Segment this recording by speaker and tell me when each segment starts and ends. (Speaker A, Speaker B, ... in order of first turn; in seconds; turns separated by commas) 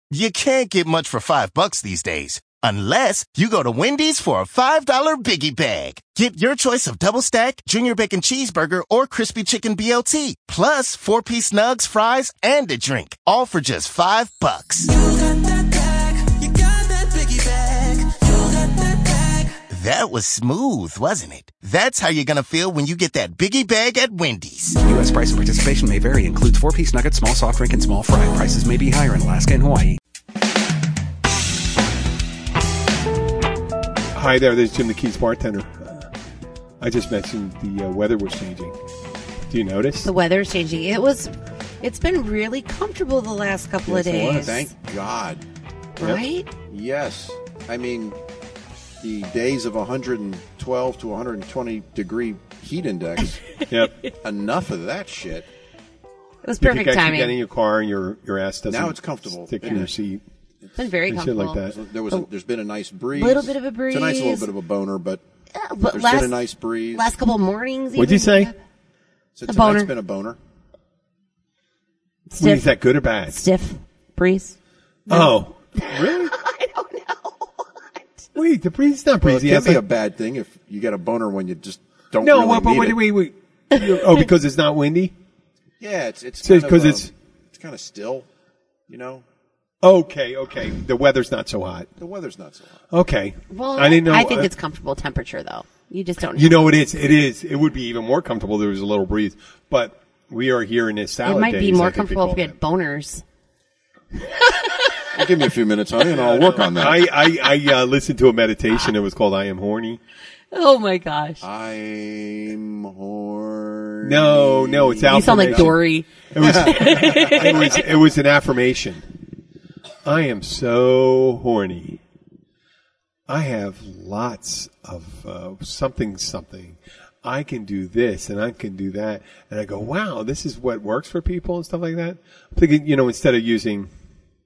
Speaker A: 0.1-14.9, Speaker B: 14.9-19.6, Speaker A: 19.7-24.8, Speaker B: 24.8-30.0, Speaker C: 34.1-36.1, Speaker C: 36.8-38.8, Speaker C: 39.5-40.1, Speaker D: 40.0-44.7, Speaker C: 43.9-44.5, Speaker E: 44.2-45.4, Speaker D: 46.0-46.5, Speaker E: 46.7-48.2, Speaker E: 49.0-53.4, Speaker C: 53.7-54.0, Speaker E: 54.1-55.5, Speaker D: 56.4-57.4, Speaker C: 56.6-60.2, Speaker E: 58.7-59.9, Speaker D: 60.8-62.3, Speaker C: 61.1-61.8, Speaker E: 61.7-65.2, Speaker D: 63.2-64.5, Speaker D: 65.5-66.4, Speaker E: 65.9-67.1, Speaker D: 66.9-68.6, Speaker C: 68.0-68.5, Speaker E: 69.3-70.4, Speaker D: 69.5-69.9, Speaker D: 72.3-72.7, Speaker C: 72.4-73.4, Speaker D: 73.3-74.6, Speaker C: 75.1-76.3, Speaker D: 75.1-78.3, Speaker C: 78.3-79.8, Speaker E: 79.2-83.0, Speaker C: 82.2-85.1, Speaker E: 85.8-88.3, Speaker C: 86.4-87.1, Speaker E: 88.9-89.2, Speaker C: 89.8-91.9, Speaker E: 92.0-92.8, Speaker C: 92.9-94.5, Speaker D: 93.5-96.7, Speaker C: 96.3-102.5, Speaker D: 101.2-103.2, Speaker E: 105.1-107.1, Speaker C: 106.1-110.0, Speaker D: 110.5-111.4, Speaker E: 111.4-115.8, Speaker C: 114.0-115.8, Speaker D: 115.1-117.8, Speaker C: 116.3-119.0, Speaker E: 116.4-117.8, Speaker C: 120.0-122.0, Speaker C: 123.3-133.9